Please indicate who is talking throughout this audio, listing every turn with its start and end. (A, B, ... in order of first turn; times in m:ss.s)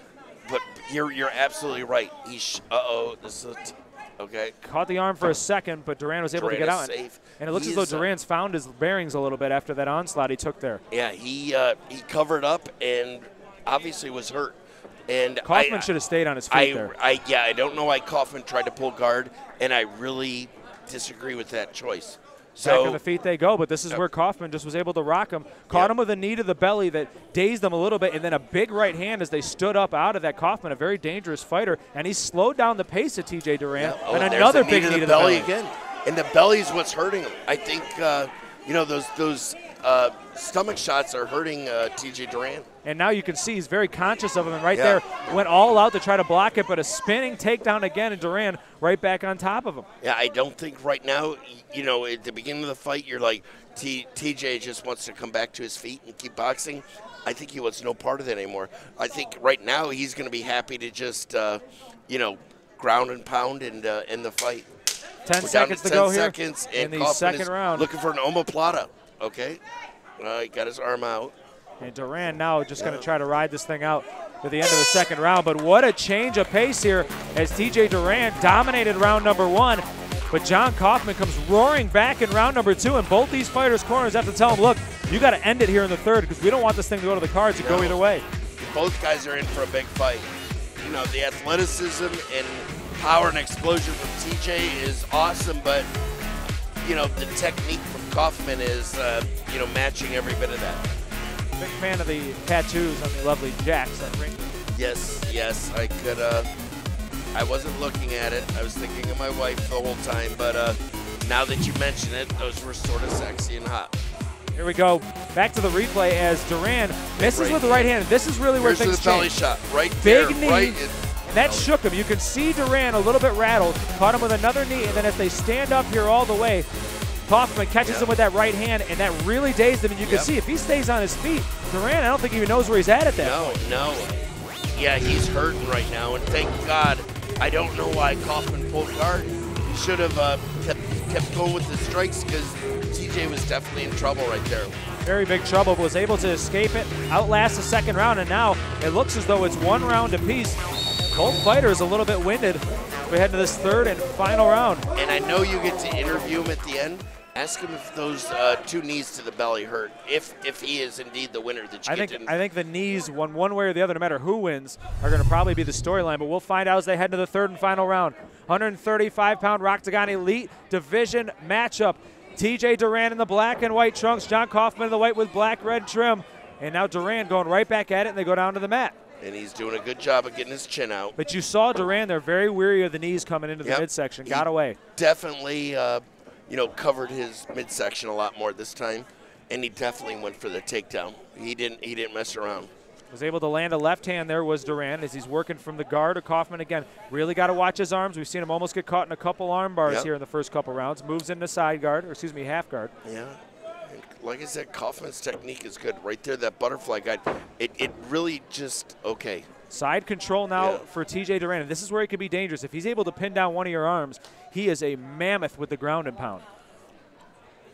0:00.4-0:04.6 A
0:04.6-0:10.8 B
0:06.3-0:08.1 A
0:10.9-0:15.9 A
0:15.4-0:16.9 B
0:16.5-0:23.0 A
0:22.6-0:35.5 B
0:33.8-0:42.7 A
0:42.8-0:49.9 B
0:44.7-0:45.0 A
0:50.0-1:04.7 A
1:05.2-1:07.9 B
1:05.4-1:09.6 A
1:10.2-1:11.3 A
1:11.8-1:28.2 B
1:12.8-1:13.1 A
1:27.6-1:28.0 A
1:28.6-1:35.9 A
1:36.8-1:40.8 A
1:41.6-1:44.5 B
1:44.7-1:46.5 A
1:47.3-1:53.9 A
1:54.5-1:59.3 B
1:57.2-1:57.9 A
1:58.6-2:01.7 A
2:00.0-2:06.7 B
2:04.8-2:05.1 A
2:07.2-2:13.6 B
2:07.8-2:08.1 A
2:10.0-2:10.3 A
2:13.2-2:24.8 A
2:25.0-2:34.8 B
2:34.9-2:42.3 A
2:41.8-2:59.0 B
2:59.2-3:01.2 A
3:01.2-3:04.8 B
3:03.6-3:12.7 A
3:13.1-3:22.9 B
3:23.0-3:29.5 A
3:29.7-3:36.4 B
3:30.6-3:30.8 A